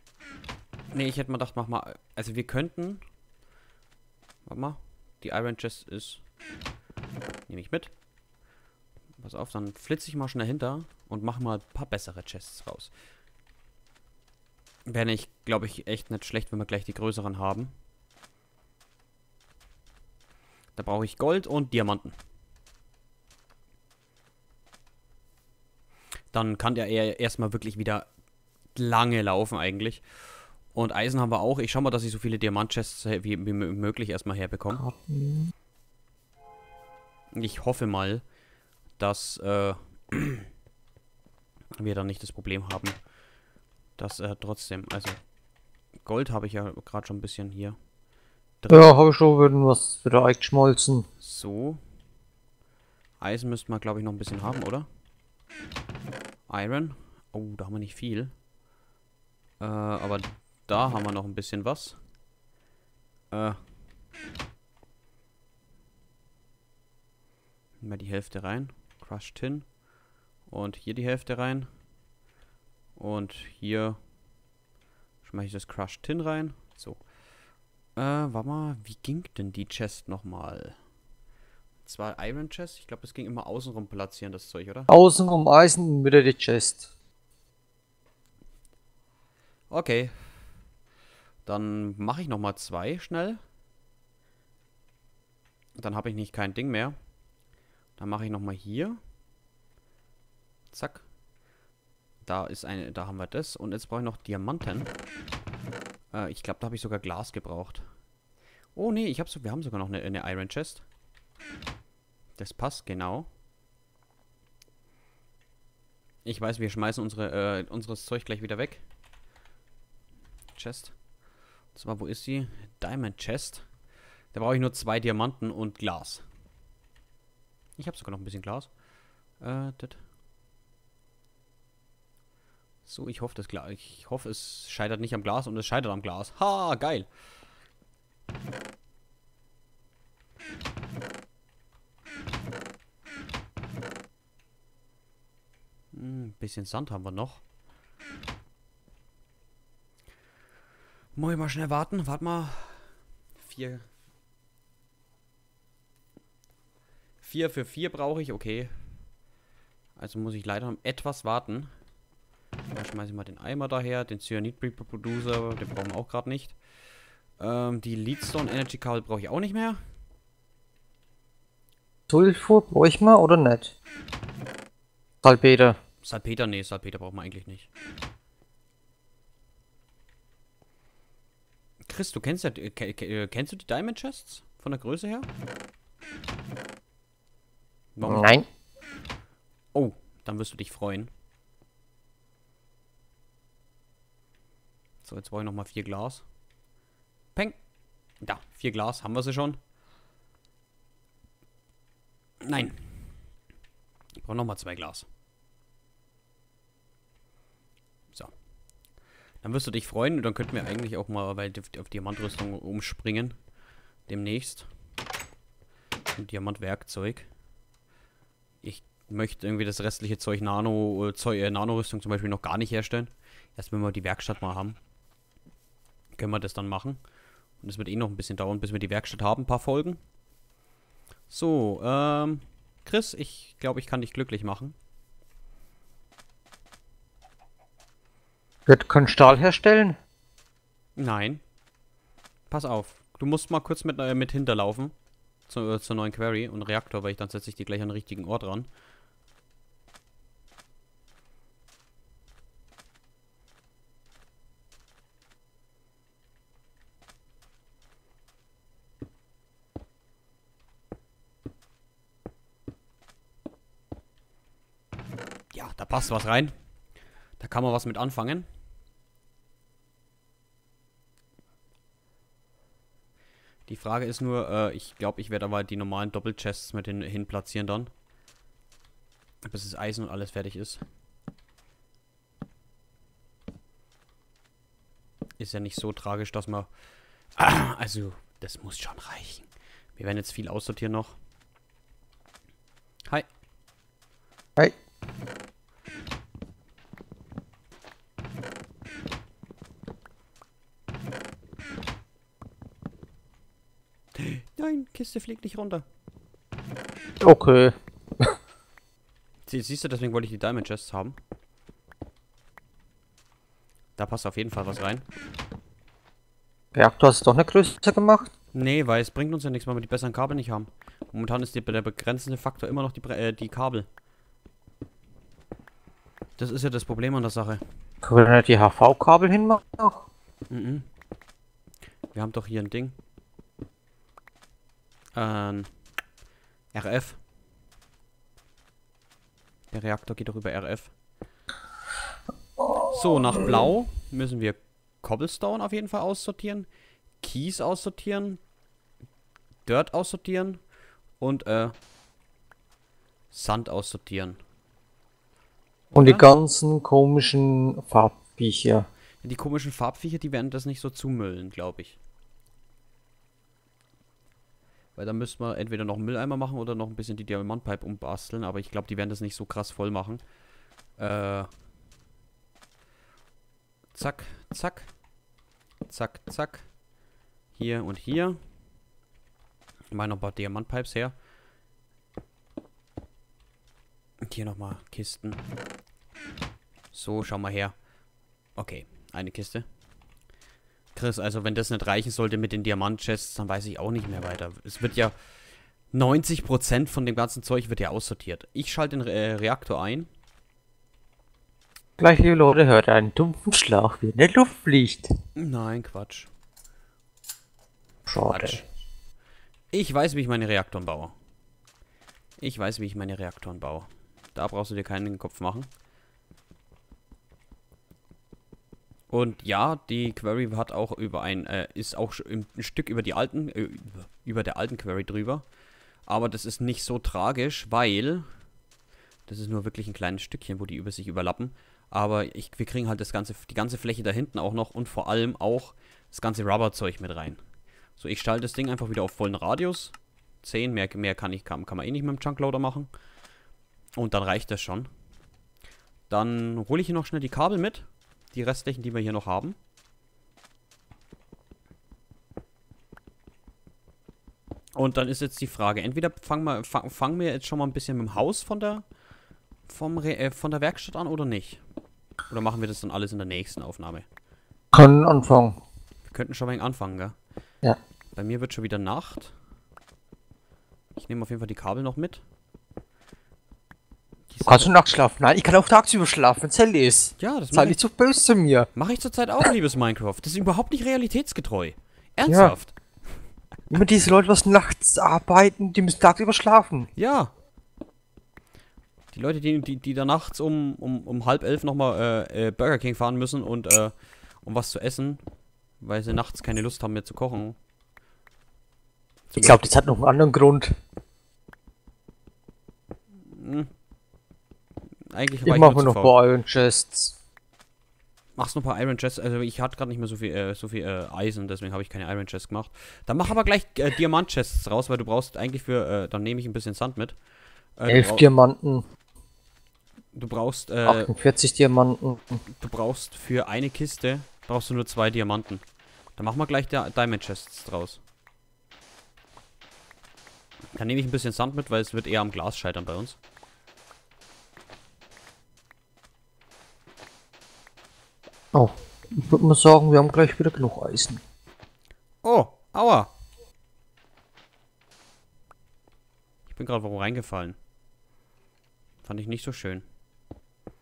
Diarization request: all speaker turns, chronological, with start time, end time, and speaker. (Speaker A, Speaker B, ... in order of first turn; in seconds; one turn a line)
Speaker A: 0.9-3.0
Speaker A: 4.5-6.2
Speaker A: 7.5-7.9
Speaker A: 9.2-12.9
Speaker A: 14.9-17.7
Speaker A: 20.8-22.1
Speaker A: 26.3-28.1
Speaker A: 28.7-34.8
Speaker B: 34.7-35.5
Speaker A: 37.3-38.2
Speaker A: 39.0-40.5
Speaker A: 41.8-43.0
Speaker A: 44.0-45.2
Speaker A: 46.0-47.8
Speaker A: 48.6-48.9
Speaker B: 48.7-51.0
Speaker A: 51.2-51.8
Speaker A: 53.2-54.9
Speaker A: 56.5-58.3
Speaker A: 59.6-62.0
Speaker A: 63.3-63.6
Speaker A: 67.8-69.7
Speaker A: 70.5-71.7
Speaker A: 73.0-74.0
Speaker A: 75.2-77.0
Speaker A: 78.0-80.8
Speaker A: 81.8-84.9
Speaker B: 84.9-86.9
Speaker A: 89.7-90.1
Speaker A: 91.5-93.4
Speaker A: 95.8-97.0
Speaker A: 98.0-99.0
Speaker A: 100.7-101.0
Speaker A: 102.2-104.9
Speaker A: 106.1-107.8
Speaker A: 108.7-110.8
Speaker A: 112.4-113.3
Speaker A: 116.2-118.8
Speaker A: 120.5-120.9
Speaker A: 121.7-123.7
Speaker A: 124.3-126.2
Speaker A: 127.8-128.7
Speaker A: 129.4-130.0
Speaker A: 132.8-137.1
Speaker A: 145.9-147.4
Speaker A: 151.1-153.8
Speaker A: 157.2-158.8
Speaker A: 160.0-161.7
Speaker A: 162.7-166.6
Speaker A: 167.4-169.8
Speaker B: 172.1-173.7
Speaker B: 175.2-175.8
Speaker A: 176.0-177.7
Speaker A: 181.8-185.3
Speaker A: 187.9-188.3
Speaker B: 188.0-188.4
Speaker A: 189.7-191.1
Speaker A: 195.0-196.2
Speaker A: 198.2-199.6
Speaker A: 202.4-202.9
Speaker A: 204.2-205.1
Speaker A: 209.4-213.3
Speaker A: 214.1-214.7
Speaker A: 216.1-217.3
Speaker A: 218.6-224.8
Speaker A: 226.2-227.0
Speaker A: 227.6-230.0
Speaker A: 231.3-234.7
Speaker B: 238.7-240.0
Speaker A: 240.9-241.4
Speaker A: 242.5-244.9
Speaker A: 245.5-248.7
Speaker A: 265.5-266.5
Speaker A: 267.4-268.5
Speaker A: 273.7-277.9
Speaker A: 279.4-280.8
Speaker A: 285.4-286.7
Speaker A: 287.4-291.2
Speaker A: 304.1-305.8
Speaker B: 307.2-308.3
Speaker A: 309.5-311.2
Speaker A: 314.0-315.0
Speaker B: 316.7-318.3
Speaker A: 318.5-323.9
Speaker A: 326.4-327.6
Speaker B: 328.0-330.0
Speaker A: 330.5-330.9
Speaker A: 332.1-332.9
Speaker A: 335.1-335.7
Speaker A: 336.7-337.2
Speaker A: 339.7-340.9
Speaker A: 342.8-346.7
Speaker A: 347.2-348.4
Speaker A: 349.6-350.6
Speaker A: 351.2-351.7
Speaker A: 353.3-354.4
Speaker A: 355.9-356.2
Speaker B: 355.9-358.9
Speaker A: 359.2-362.0
Speaker A: 364.9-370.2
Speaker A: 371.0-371.5
Speaker A: 373.9-374.9
Speaker A: 375.9-376.7
Speaker A: 377.5-378.4
Speaker A: 379.9-381.1
Speaker A: 384.2-385.4
Speaker A: 386.9-387.7
Speaker A: 388.6-389.6
Speaker A: 390.9-395.1
Speaker A: 395.9-400.1
Speaker B: 402.0-405.1
Speaker A: 405.4-406.3
Speaker B: 408.1-408.6
Speaker A: 408.2-408.6
Speaker A: 409.7-411.1
Speaker A: 412.4-415.7
Speaker A: 419.1-425.4
Speaker A: 426.1-428.3
Speaker A: 429.3-437.4
Speaker A: 438.0-442.9
Speaker A: 443.9-444.9
Speaker A: 446.1-449.6
Speaker A: 454.7-458.9
Speaker A: 459.7-461.6
Speaker A: 462.3-464.1
Speaker B: 464.7-465.6
Speaker A: 466.1-467.1
Speaker A: 468.1-469.3
Speaker A: 471.0-472.2
Speaker A: 474.3-474.7
Speaker B: 474.4-478.7
Speaker A: 477.2-477.8
Speaker A: 478.7-482.7
Speaker B: 482.3-482.6
Speaker B: 483.7-486.9
Speaker A: 486.9-487.3
Speaker A: 489.1-495.2
Speaker A: 495.8-497.6
Speaker A: 499.3-499.7
Speaker B: 499.4-500.7
Speaker A: 503.2-503.7
Speaker A: 505.1-506.1
Speaker B: 505.4-507.1
Speaker A: 508.4-517.2
Speaker A: 517.8-518.2
Speaker B: 517.9-518.9
Speaker A: 520.1-521.1
Speaker B: 520.9-522.4
Speaker A: 522.5-525.6
Speaker A: 526.2-528.0
Speaker A: 530.7-533.2
Speaker B: 538.5-541.2
Speaker A: 542.2-543.1
Speaker A: 546.5-547.6
Speaker A: 549.0-549.8